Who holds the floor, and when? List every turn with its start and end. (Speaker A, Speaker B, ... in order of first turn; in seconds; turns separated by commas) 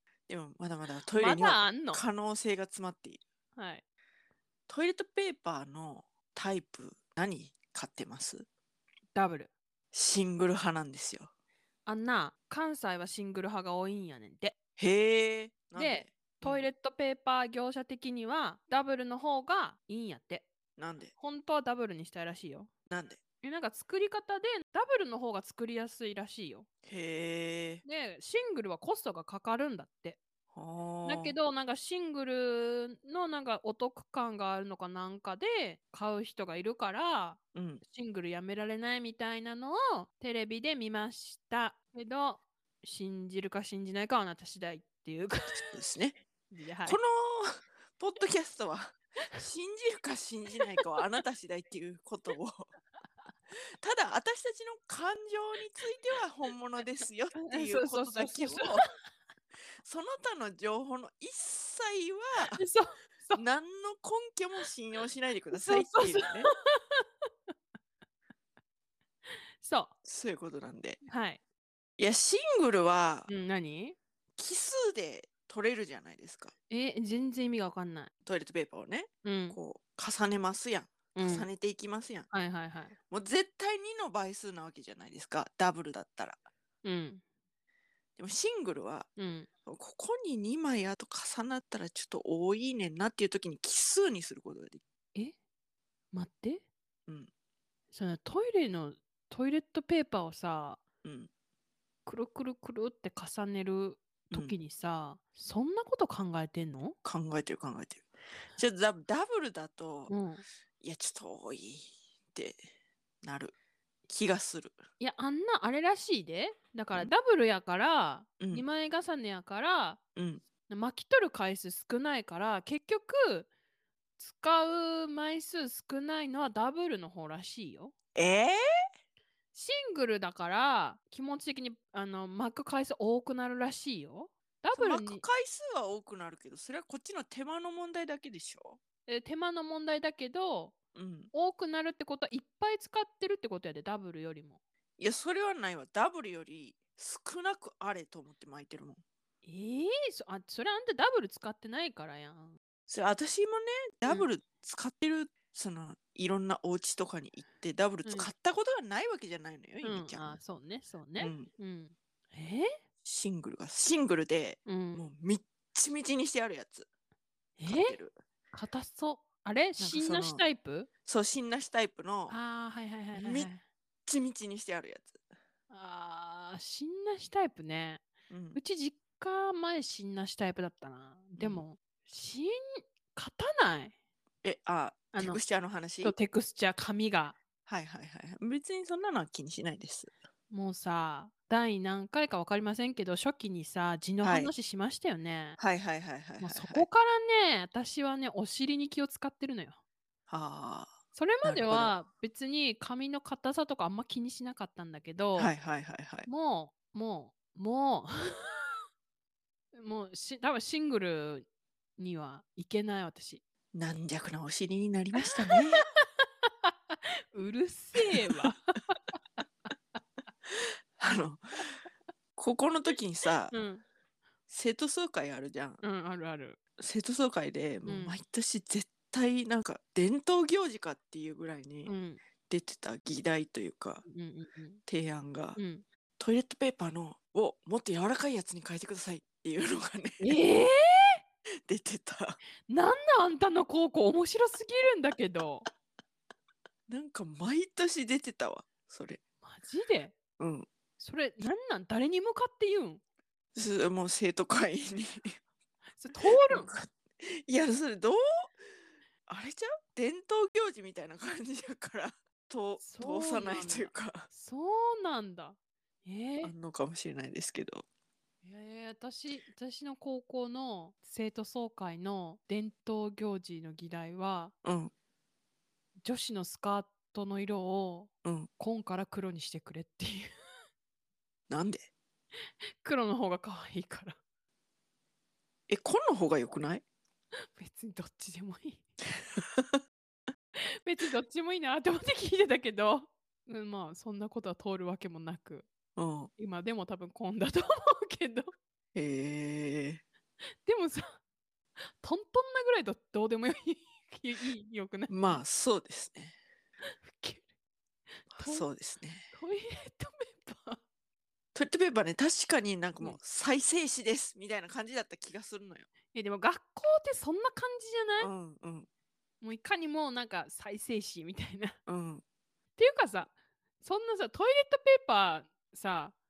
Speaker A: 0.3-3.2, Speaker B: 1.1-2.0, Speaker B: 3.5-3.8, Speaker A: 4.7-8.4, Speaker B: 9.1-9.5, Speaker A: 9.9-11.3, Speaker B: 11.8-14.5, Speaker A: 14.8-16.6, Speaker B: 15.8-20.5, Speaker A: 20.8-21.1, Speaker B: 21.2-22.7, Speaker A: 22.9-23.2, Speaker B: 23.4-26.7, Speaker A: 26.9-27.8, Speaker B: 27.8-30.2, Speaker A: 30.5-31.4, Speaker B: 31.1-45.8, Speaker A: 37.5-37.8, Speaker A: 45.7-46.2, Speaker B: 46.5-47.0, Speaker A: 46.9-52.7, Speaker A: 53.5-58.8, Speaker B: 57.3-58.8, Speaker A: 59.8-62.6, Speaker B: 62.5-63.4, Speaker A: 63.3-66.5, Speaker B: 65.5-67.0, Speaker B: 69.6-69.9, Speaker A: 70.0-71.0, Speaker B: 71.0-71.4, Speaker A: 72.0-73.3, Speaker B: 73.3-74.0, Speaker A: 74.4-76.5, Speaker B: 76.7-78.1, Speaker A: 78.2-82.3, Speaker B: 79.2-79.6, Speaker B: 81.1-81.5, Speaker B: 82.3-83.0, Speaker A: 83.1-86.4, Speaker B: 86.8-87.2, Speaker A: 88.2-89.1, Speaker B: 89.2-89.5, Speaker A: 89.7-94.8, Speaker B: 96.1-96.7, Speaker B: 97.9-100.8, Speaker A: 101.0-101.3, Speaker B: 102.0-107.0, Speaker A: 107.0-108.0, Speaker A: 108.5-110.1, Speaker B: 110.1-110.4, Speaker A: 110.8-112.6, Speaker A: 113.2-113.5, Speaker A: 114.1-114.8, Speaker B: 115.0-120.0, Speaker A: 118.4-118.6, Speaker A: 120.2-120.4, Speaker B: 120.7-123.5, Speaker B: 124.2-127.9, Speaker A: 128.2-128.6, Speaker B: 129.5-135.2, Speaker A: 134.7-138.8, Speaker B: 139.1-140.7, Speaker A: 140.9-141.3, Speaker B: 141.3-144.6, Speaker A: 145.0-149.0, Speaker B: 149.4-152.6, Speaker A: 152.9-160.4, Speaker B: 158.0-158.3, Speaker B: 159.8-162.8, Speaker A: 161.2-161.5, Speaker A: 163.0-166.9, Speaker B: 164.6-165.0, Speaker B: 167.6-168.0, Speaker A: 167.7-168.1, Speaker B: 168.5-170.9, Speaker A: 169.8-170.4, Speaker A: 171.0-172.3, Speaker B: 172.3-173.6, Speaker A: 173.1-173.5, Speaker A: 174.1-175.2, Speaker B: 175.7-178.0, Speaker A: 178.3-178.6, Speaker B: 178.5-183.9, Speaker A: 181.4-181.6, Speaker A: 184.4-186.1, Speaker B: 185.1-185.4, Speaker B: 186.0-187.3, Speaker A: 187.7-190.1, Speaker B: 190.5-195.6, Speaker A: 194.2-194.5, Speaker A: 195.6-196.8, Speaker B: 196.4-199.8, Speaker A: 200.3-201.9, Speaker B: 201.2-205.5, Speaker A: 205.3-206.3, Speaker B: 206.2-208.8, Speaker B: 209.7-211.5, Speaker B: 212.0-213.4, Speaker A: 213.7-215.8, Speaker B: 215.5-219.4, Speaker A: 217.9-218.5, Speaker A: 220.5-221.7, Speaker A: 222.4-223.5, Speaker B: 223.5-223.8, Speaker A: 224.5-225.8, Speaker B: 225.8-226.6, Speaker A: 226.8-231.9, Speaker B: 227.8-228.2, Speaker B: 231.8-232.2, Speaker A: 232.5-234.0, Speaker B: 234.0-234.8, Speaker A: 234.9-235.6, Speaker B: 235.6-235.8, Speaker A: 236.2-240.4, Speaker B: 240.2-241.2, Speaker A: 241.7-242.4, Speaker B: 242.7-245.7, Speaker A: 246.9-249.2, Speaker B: 249.4-250.1, Speaker A: 250.4-250.7, Speaker B: 251.0-253.0, Speaker A: 253.6-255.4, Speaker B: 256.0-256.7, Speaker A: 256.2-258.5, Speaker A: 259.3-264.3, Speaker B: 262.8-266.5, Speaker A: 266.4-267.9, Speaker B: 268.4-274.5, Speaker A: 274.6-274.9, Speaker B: 276.0-280.3, Speaker A: 281.5-281.9, Speaker B: 282.8-284.2, Speaker A: 285.7-286.8, Speaker B: 287.5-288.8, Speaker A: 289.4-289.7, Speaker B: 290.8-295.7, Speaker A: 295.9-296.3, Speaker B: 296.4-298.5, Speaker A: 298.9-300.0, Speaker B: 300.6-301.1, Speaker B: 302.0-305.4, Speaker A: 305.1-306.4, Speaker B: 306.9-307.4, Speaker A: 308.3-309.3, Speaker B: 308.4-308.7, Speaker B: 309.3-310.8, Speaker A: 311.5-315.9, Speaker B: 316.1-318.3, Speaker A: 318.2-318.9, Speaker B: 319.4-321.8, Speaker A: 321.9-322.2, Speaker B: 322.8-326.1